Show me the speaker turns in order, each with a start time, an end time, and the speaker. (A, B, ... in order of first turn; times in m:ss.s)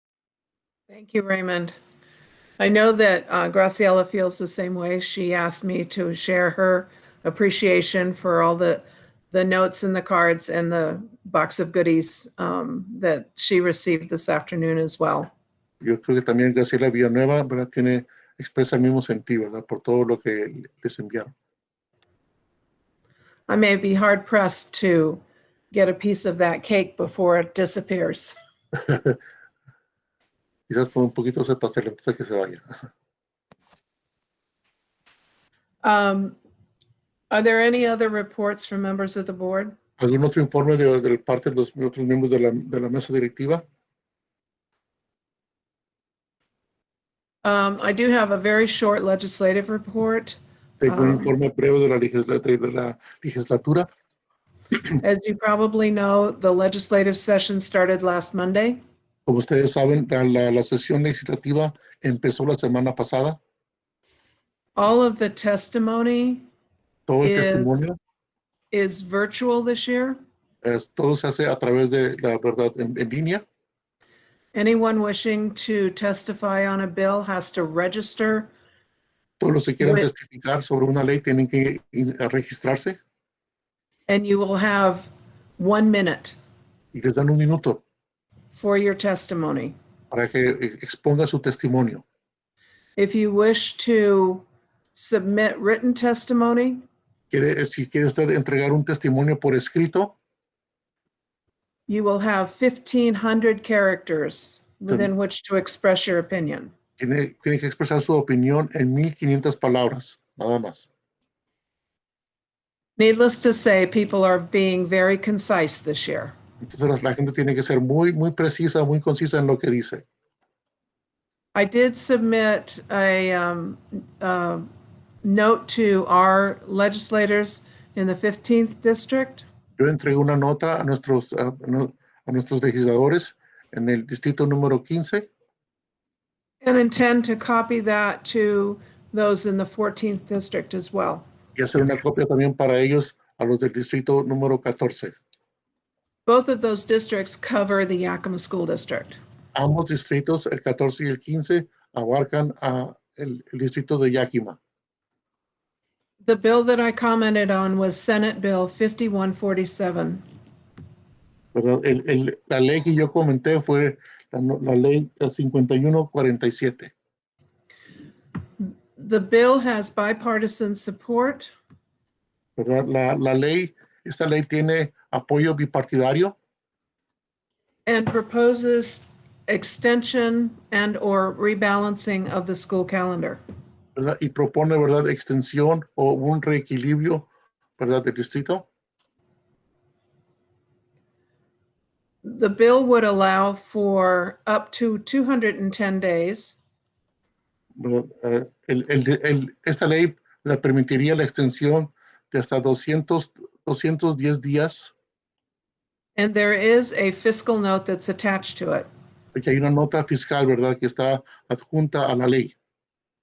0:00.9-0:01.7 A
0:02.6-0:15.3 A
0:15.8-0:21.3 B
0:23.5-0:28.4 A
0:28.8-0:29.2 B
0:30.7-0:32.6 B
0:35.8-0:36.4 A
0:37.3-0:39.8 A
0:40.0-0:43.6 B
0:47.4-0:51.3 A
0:50.8-0:53.9 B
0:55.0-0:58.8 A
0:59.2-1:03.4 B
1:04.8-1:06.4 A
1:07.1-1:08.0 B
1:07.2-1:07.8 A
1:08.7-1:10.2 A
1:10.6-1:13.4 B
1:14.5-1:18.5 A
1:19.4-1:23.0 B
1:19.8-1:20.1 A
1:24.1-1:26.4 A
1:26.9-1:27.8 B
1:28.5-1:29.8 A
1:30.1-1:32.0 B
1:33.0-1:36.8 A
1:37.3-1:40.1 B
1:41.9-1:46.7 A
1:47.0-1:50.9 B
1:53.0-1:56.3 A
1:56.6-2:00.0 B
2:01.5-2:04.6 A
2:05.2-2:09.4 A
2:09.8-2:15.3 B
2:16.6-2:21.3 A
2:21.6-2:25.2 B
2:26.2-2:29.2 A
2:29.5-2:34.6 B
2:36.2-2:40.2 A
2:41.5-2:46.9 B
2:48.6-2:51.5 A
2:52.6-2:56.3 B
2:57.8-3:03.4 A
3:04.0-3:07.3 B
3:07.8-3:08.6 B
3:12.2-3:16.6 A
3:17.8-3:24.9 B
3:26.2-3:28.9 A
3:29.3-3:32.5 B